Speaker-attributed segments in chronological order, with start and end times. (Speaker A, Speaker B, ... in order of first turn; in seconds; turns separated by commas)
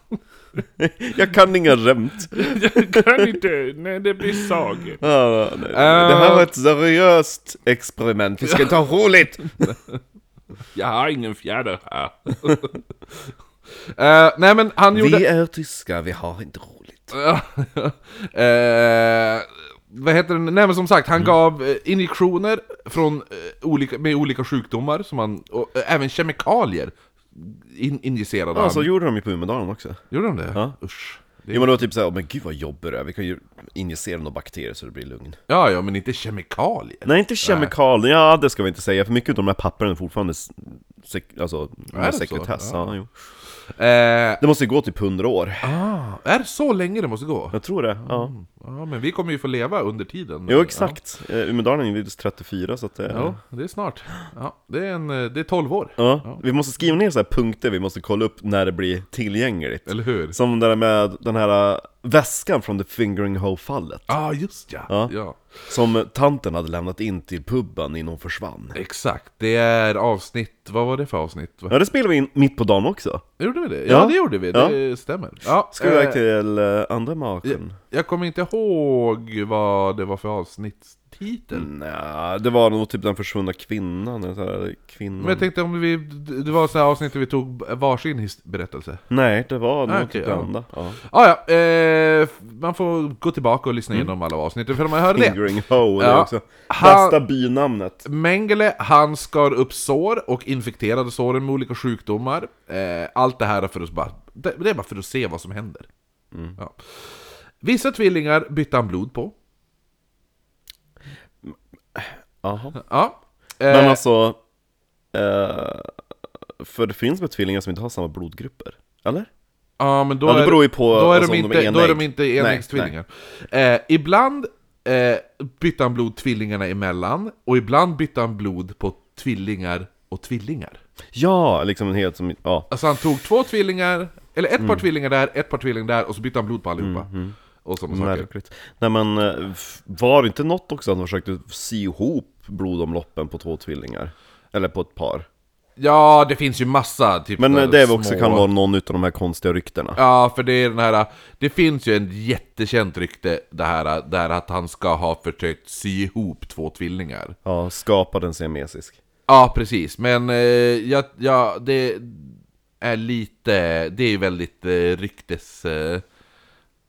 Speaker A: 0.8-3.2, Speaker B: 2.5-5.0, Speaker A: 5.0-9.8, Speaker C: 5.7-6.5, Speaker C: 9.6-10.0, Speaker B: 10.8-12.3, Speaker C: 12.4-12.7, Speaker C: 13.9-15.2, Speaker A: 14.9-17.1, Speaker C: 17.1-28.9, Speaker A: 28.5-30.0, Speaker C: 30.1-31.8, Speaker A: 31.5-35.4, Speaker C: 35.5-37.7, Speaker A: 37.0-43.1, Speaker C: 41.9-42.9, Speaker C: 43.8-44.4, Speaker A: 44.4-45.7, Speaker C: 45.6-51.0, Speaker A: 47.5-48.3, Speaker A: 50.5-53.4, Speaker C: 53.1-56.4, Speaker A: 56.0-64.1, Speaker C: 59.9-60.4, Speaker C: 64.1-65.5, Speaker A: 64.9-65.1, Speaker A: 65.7-68.8, Speaker C: 68.8-71.8, Speaker A: 71.7-73.2, Speaker C: 73.4-76.2, Speaker A: 73.9-74.8, Speaker A: 75.7-77.8, Speaker C: 77.4-81.7, Speaker A: 81.5-85.5, Speaker C: 85.2-89.0, Speaker A: 89.1-91.0, Speaker C: 89.9-90.5, Speaker C: 91.0-95.4, Speaker A: 95.1-98.0, Speaker C: 96.0-97.2, Speaker C: 98.0-105.9, Speaker A: 106.3-106.6, Speaker C: 106.6-109.3, Speaker A: 111.5-112.8, Speaker C: 112.8-114.0, Speaker A: 113.7-114.4, Speaker A: 115.1-116.0, Speaker A: 116.6-119.3, Speaker C: 119.8-130.8, Speaker A: 120.2-122.9, Speaker A: 131.1-132.7, Speaker C: 132.7-137.1, Speaker A: 134.6-134.8, Speaker A: 136.8-137.4, Speaker C: 137.6-138.3, Speaker A: 137.9-145.3, Speaker C: 145.8-148.5, Speaker A: 147.4-150.0, Speaker C: 150.0-157.4, Speaker A: 157.4-159.0, Speaker C: 159.3-166.0